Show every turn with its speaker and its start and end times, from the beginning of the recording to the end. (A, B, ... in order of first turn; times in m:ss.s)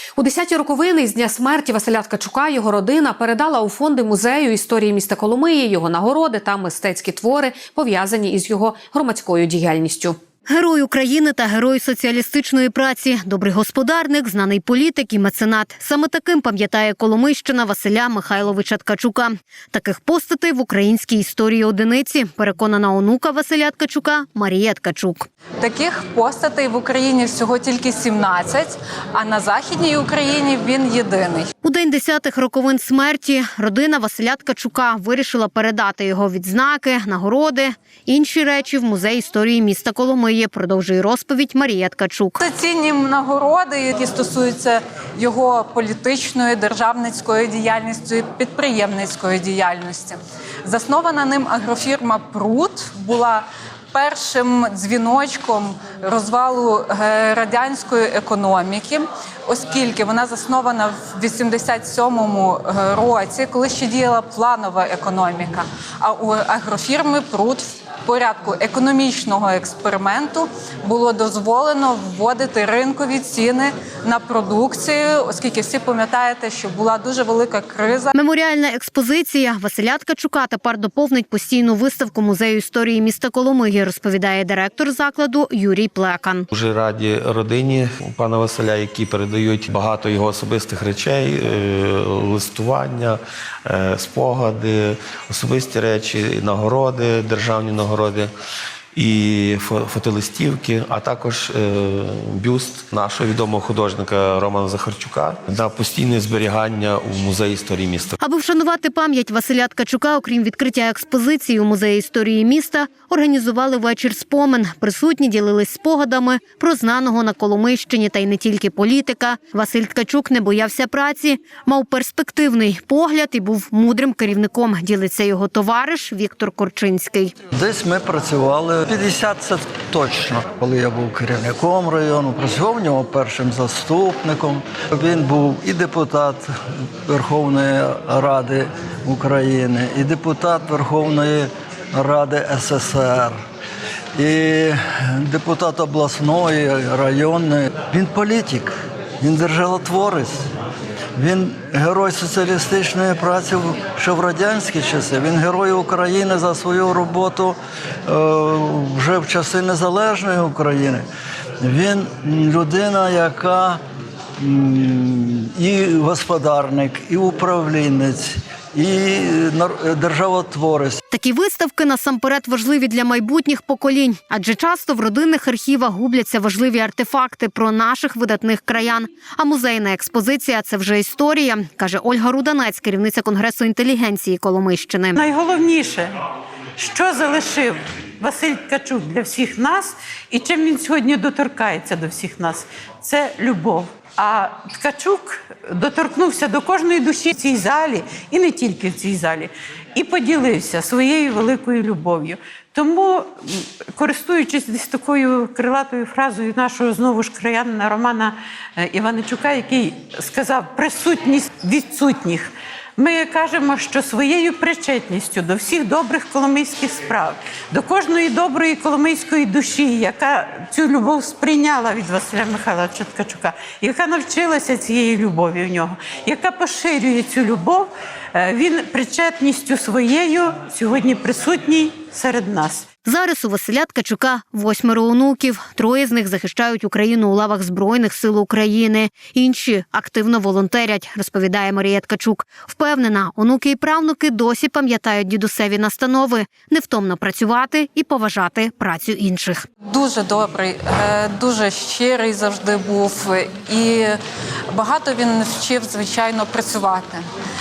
0:00.2-0:10.2 A
0:10.5-0:25.3 B
0:25.6-0:31.5 C
0:31.6-0:42.4 B
0:42.4-1:18.1 C
1:18.1-1:26.4 B
1:26.5-1:38.3 D
1:38.9-1:48.2 D
1:48.2-2:07.3 B
2:07.5-2:16.5 E
2:17.1-2:23.4 E
2:24.2-2:30.5 E
2:31.2-2:41.0 E
2:41.6-2:43.8 E
2:44.4-2:51.0 E
2:51.1-3:05.2 B
3:05.2-3:06.1 F
3:06.8-3:52.8 F
3:53.0-4:09.7 B
4:09.8-4:14.2 C
4:14.7-4:17.2 C